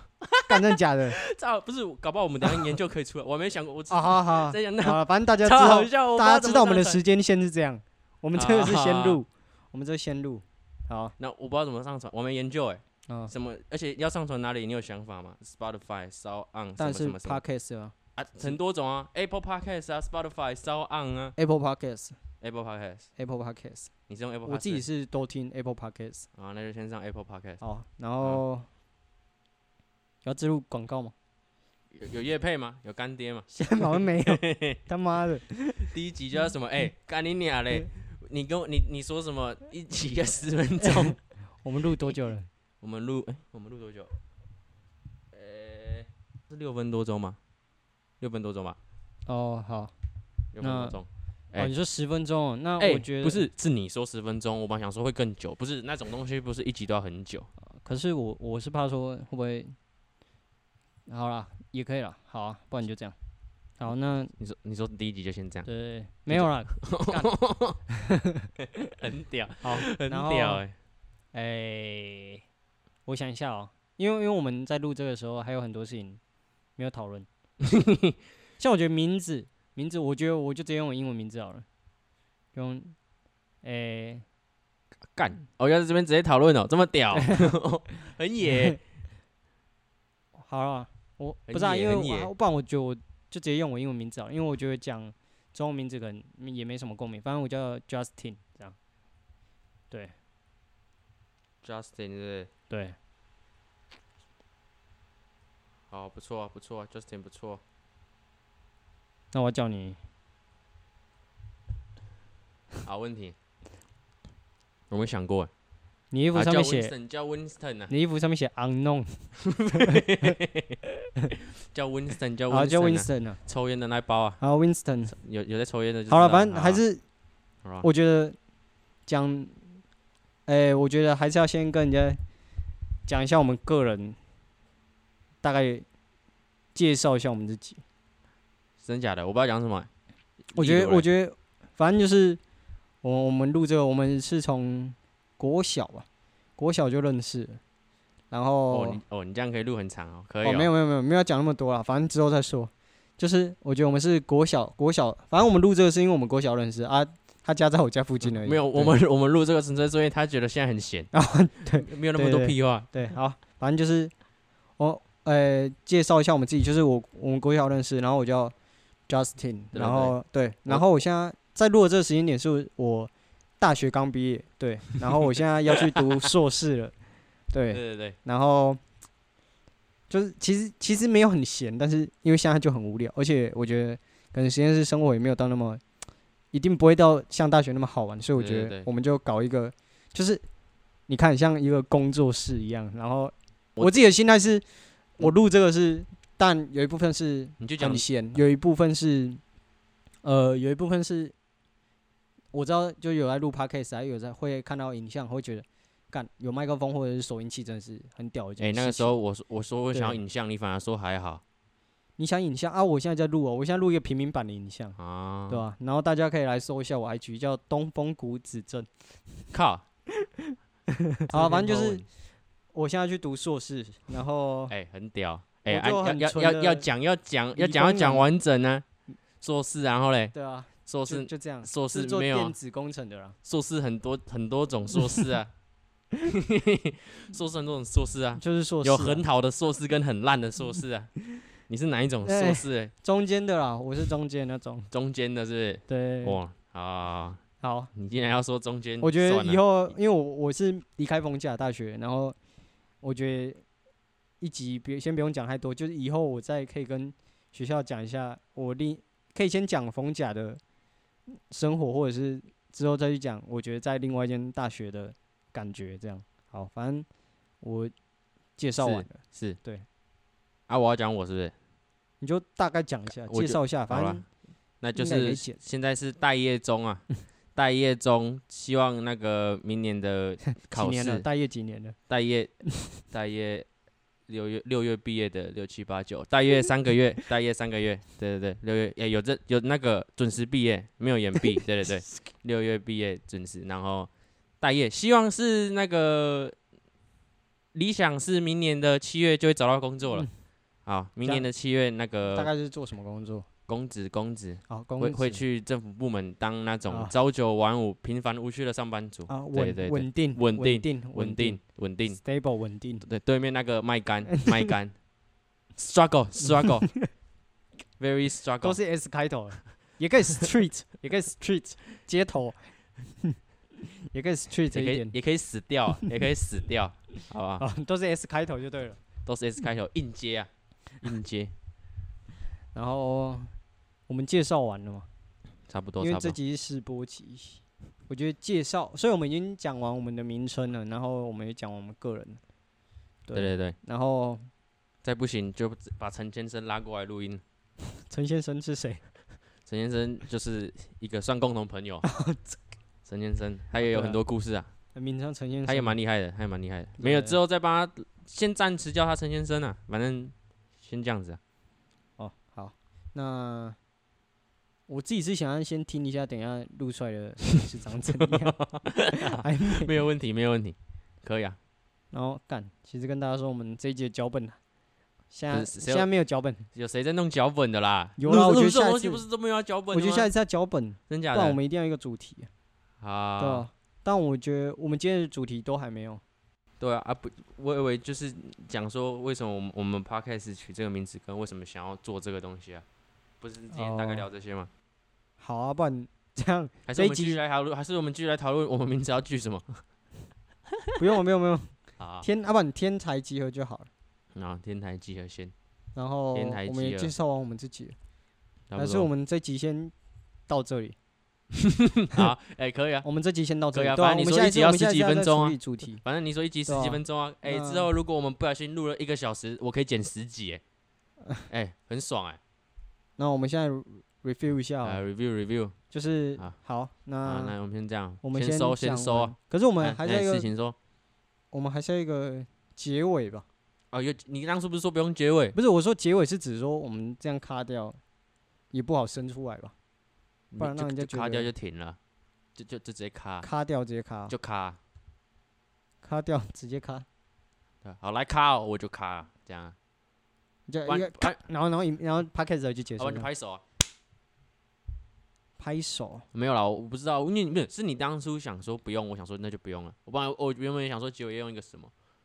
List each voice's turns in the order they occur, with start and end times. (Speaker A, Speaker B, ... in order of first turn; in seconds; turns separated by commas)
Speaker A: 0.2-7.0, Speaker B: 0.5-1.2, Speaker B: 2.4-2.7, Speaker B: 3.9-11.1, Speaker A: 8.3-9.2, Speaker A: 11.2-17.4, Speaker B: 16.8-18.5, Speaker A: 18.2-21.4, Speaker B: 21.4-22.1, Speaker A: 22.4-23.1, Speaker B: 23.2-23.9, Speaker A: 24.1-24.8, Speaker B: 24.4-26.3, Speaker A: 26.3-27.6, Speaker B: 27.6-28.7, Speaker B: 30.2-31.1, Speaker A: 31.9-34.8, Speaker B: 33.5-35.9, Speaker A: 35.8-41.2, Speaker B: 40.8-42.5, Speaker A: 42.8-44.1, Speaker A: 45.3-47.4, Speaker A: 48.2-48.8, Speaker B: 49.2-49.9, Speaker A: 50.5-51.7, Speaker B: 50.6-51.0, Speaker B: 51.6-53.5, Speaker A: 52.8-57.5, Speaker B: 57.6-59.8, Speaker B: 61.1-63.1, Speaker B: 63.8-64.3, Speaker A: 64.4-65.7, Speaker B: 65.6-67.3, Speaker A: 66.3-67.8, Speaker A: 68.8-70.8, Speaker B: 69.6-70.6, Speaker B: 71.3-72.4, Speaker B: 73.0-76.2, Speaker B: 76.8-77.3, Speaker A: 77.6-78.1, Speaker B: 78.6-81.7, Speaker B: 82.5-82.9, Speaker B: 83.6-84.2, Speaker A: 85.1-88.8, Speaker B: 87.1-87.5, Speaker B: 90.4-98.8, Speaker A: 91.5-92.3, Speaker A: 101.6-102.5, Speaker B: 102.7-103.0, Speaker A: 105.9-107.6, Speaker B: 109.3-110.0, Speaker A: 112.8-113.3, Speaker A: 114.9-115.5, Speaker B: 116.1-116.9, Speaker A: 116.3-117.9, Speaker B: 117.9-120.3, Speaker A: 119.4-120.8, Speaker A: 121.4-124.4, Speaker B: 122.5-123.4, Speaker B: 124.4-125.1, Speaker A: 125.1-126.8, Speaker B: 126.1-127.0, Speaker B: 127.8-128.3, Speaker B: 129.1-129.7, Speaker B: 130.4-132.2, Speaker B: 133.1-134.2, Speaker B: 135.4-135.8, Speaker B: 136.7-137.8, Speaker A: 138.8-139.9, Speaker A: 140.5-141.1, Speaker B: 140.5-142.4, Speaker B: 143.0-146.1, Speaker B: 146.6-147.6, Speaker B: 148.3-149.0, Speaker A: 148.7-150.7, Speaker B: 150.4-158.9, Speaker A: 158.2-161.1, Speaker B: 161.1-164.1, Speaker A: 161.7-162.9, Speaker B: 164.8-168.5, Speaker B: 169.1-176.9, Speaker A: 169.7-170.8, Speaker B: 177.5-178.8, Speaker A: 177.7-178.2, Speaker B: 180.1-185.8, Speaker B: 186.5-190.4, Speaker A: 188.3-188.9, Speaker B: 191.1-194.6, Speaker B: 195.2-199.4, Speaker A: 197.6-198.0, Speaker B: 200.2-201.3, Speaker B: 202.5-209.2, Speaker A: 208.6-211.4, Speaker B: 209.9-210.2, Speaker B: 212.2-215.0, Speaker A: 215.0-215.6, Speaker B: 215.5-219.4, Speaker A: 219.5-219.8, Speaker B: 221.2-222.0, Speaker A: 221.3-222.0, Speaker B: 222.7-224.7, Speaker A: 224.7-228.8, Speaker B: 225.7-226.9, Speaker B: 227.5-228.3, Speaker A: 229.4-230.3, Speaker B: 230.3-233.3, Speaker A: 230.8-232.5, Speaker A: 233.4-235.5, Speaker A: 236.2-242.9, Speaker B: 238.4-239.2, Speaker B: 242.2-244.9, Speaker A: 244.9-247.4, Speaker B: 245.9-246.4, Speaker B: 247.6-247.9, Speaker A: 247.9-249.7, Speaker B: 249.0-252.3, Speaker B: 253.0-253.6, Speaker B: 254.4-260.6, Speaker B: 261.3-267.1, Speaker B: 267.6-267.9, Speaker B: 268.6-269.9, Speaker A: 268.8-269.6, Speaker A: 270.7-271.5, Speaker B: 272.2-274.2, Speaker A: 273.3-274.2, Speaker A: 274.8-281.2, Speaker B: 274.9-275.6, Speaker B: 280.5-281.9, Speaker A: 282.1-283.7, Speaker B: 282.7-282.9, Speaker A: 284.3-294.1, Speaker A: 294.6-296.5, Speaker A: 297.7-300.3, Speaker A: 300.9-302.5, Speaker B: 302.3-303.4, Speaker A: 303.7-312.2, Speaker B: 304.7-305.4, Speaker B: 306.9-307.1, Speaker B: 309.3-313.0, Speaker A: 313.0-314.9, Speaker A: 315.8-316.9, Speaker A: 318.0-318.8, Speaker B: 318.6-325.1, Speaker A: 324.7-327.6, Speaker B: 327.6-329.0, Speaker A: 329.2-330.5, Speaker A: 331.0-331.5, Speaker B: 332.7-333.5, Speaker B: 334.1-335.1, Speaker A: 335.7-336.4, Speaker B: 336.0-342.4, Speaker B: 343.2-344.5, Speaker A: 343.3-343.8, Speaker A: 345.0-347.4, Speaker B: 347.9-349.0, Speaker A: 349.7-352.0, Speaker B: 352.0-352.6, Speaker A: 353.1-354.7, Speaker B: 353.8-354.2, Speaker B: 354.9-356.0, Speaker A: 355.7-361.4, Speaker B: 357.0-357.4, Speaker B: 362.2-363.8, Speaker B: 364.9-368.6, Speaker A: 368.3-371.6, Speaker B: 369.1-369.9, Speaker B: 372.1-374.6, Speaker B: 375.3-376.6, Speaker A: 375.5-376.1, Speaker A: 376.7-380.3, Speaker B: 378.2-379.2, Speaker B: 379.9-382.5, Speaker A: 381.1-381.6, Speaker A: 383.0-383.7, Speaker B: 383.4-386.2, Speaker A: 386.8-392.8, Speaker A: 393.4-394.7, Speaker B: 393.7-394.3, Speaker B: 395.4-397.4, Speaker A: 396.9-399.8, Speaker B: 401.0-403.9, Speaker A: 402.0-402.2, Speaker A: 404.3-405.5, Speaker B: 405.9-407.9, Speaker A: 406.3-407.1, Speaker A: 408.7-409.1, Speaker B: 408.8-409.9, Speaker B: 410.5-410.9, Speaker A: 411.6-413.1, Speaker B: 413.0-416.0, Speaker A: 413.7-420.6, Speaker B: 416.7-417.9, Speaker A: 421.5-422.4, Speaker B: 423.2-425.0, Speaker A: 424.8-425.7, Speaker B: 425.9-427.6, Speaker A: 427.2-430.8, Speaker B: 428.2-430.5, Speaker B: 431.5-433.4, Speaker A: 433.9-435.6, Speaker B: 435.5-438.0, Speaker B: 438.7-439.7, Speaker A: 440.5-442.0, Speaker B: 440.6-441.5, Speaker A: 442.6-443.5, Speaker B: 443.4-444.3, Speaker A: 444.3-444.8, Speaker B: 446.0-447.1, Speaker A: 447.8-449.8, Speaker B: 450.7-453.3, Speaker A: 450.8-451.4, Speaker A: 453.0-453.6, Speaker B: 455.6-456.2, Speaker A: 456.3-461.9